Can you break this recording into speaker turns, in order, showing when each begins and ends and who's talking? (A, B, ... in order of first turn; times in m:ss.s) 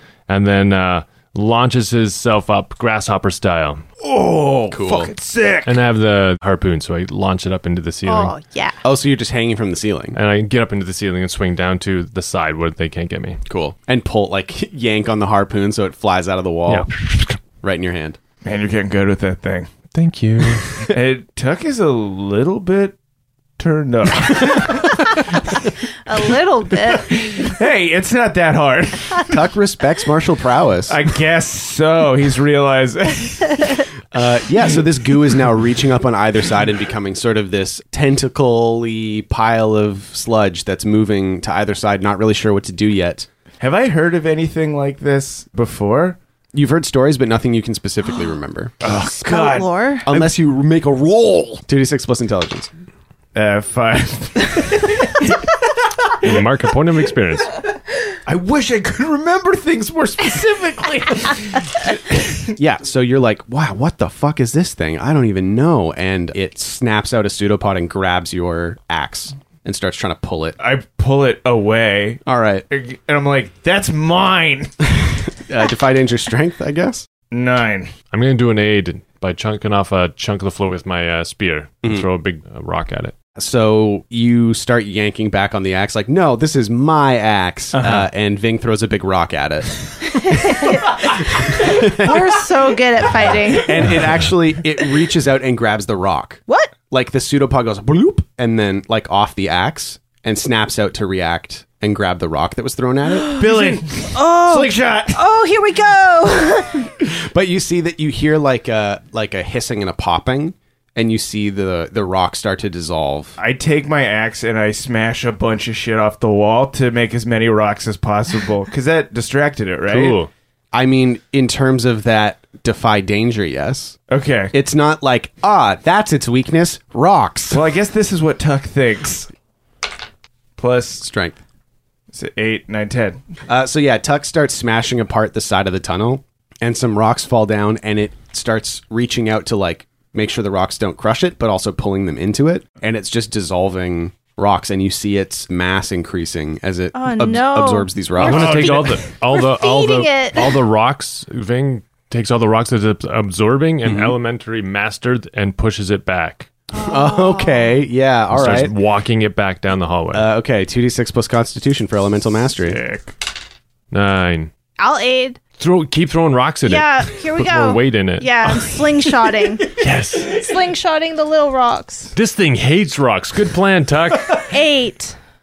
0:00.3-0:03.8 A
0:04.0-0:05.8 B
0:04.7-0:05.1 C
0:05.6-0:08.3 A
0:08.0-0:08.8 D
0:08.8-0:10.2 C
0:10.1-0:13.4 A
0:13.4-0:16.9 C
0:16.7-0:17.3 A
0:17.6-0:18.2 C
0:18.4-0:19.7 B
0:19.9-0:20.9 A
0:20.9-0:23.0 B
0:23.6-0:25.6 B
0:26.0-0:27.2 D
0:26.8-0:29.4 B
0:29.3-0:31.0 C
0:30.9-0:33.8 B
0:34.1-0:43.3 C
0:43.6-0:46.2 B
0:46.5-0:48.7 C
0:48.8-0:50.3 B
0:48.8-0:50.1 D
0:50.1-0:52.7 C
0:53.3-0:55.4 B
0:56.2-0:57.5 A
0:58.2-1:02.5 B
1:02.6-1:10.6 C
1:10.6-1:15.3 B
1:12.2-1:12.6 C
1:15.4-1:17.1 C
1:17.3-1:17.9 B
1:18.1-1:23.1 A
1:23.4-1:30.6 C
1:27.7-1:28.0 B
1:30.1-1:31.0 D
1:31.4-1:32.2 C
1:31.6-1:34.0 D
1:33.6-1:43.3 C
1:43.2-1:46.9 D
1:43.3-1:45.2 B
1:47.1-1:53.4 C
1:53.4-2:00.2 B
1:59.9-2:00.3 A
2:00.7-2:04.0 C
2:04.1-2:04.5 B
2:04.5-2:07.6 C
2:07.5-2:09.3 B
2:10.6-2:11.0 B
2:11.0-2:11.4 C
2:12.1-2:13.2 B
2:13.5-2:28.8 C
2:26.9-2:30.6 D
2:28.2-2:36.5 A
2:28.3-2:29.0 B
2:33.8-2:34.2 C
2:36.7-2:37.7 D
2:36.8-2:38.7 C
2:38.3-2:40.2 A
2:40.1-2:42.8 C
2:42.6-2:43.1 B
2:43.9-2:44.5 A
2:44.8-2:45.4 D
2:45.6-2:48.5 A
2:46.6-2:52.1 D
2:49.8-2:50.4 A
2:52.1-2:54.4 A
2:54.5-2:55.2 D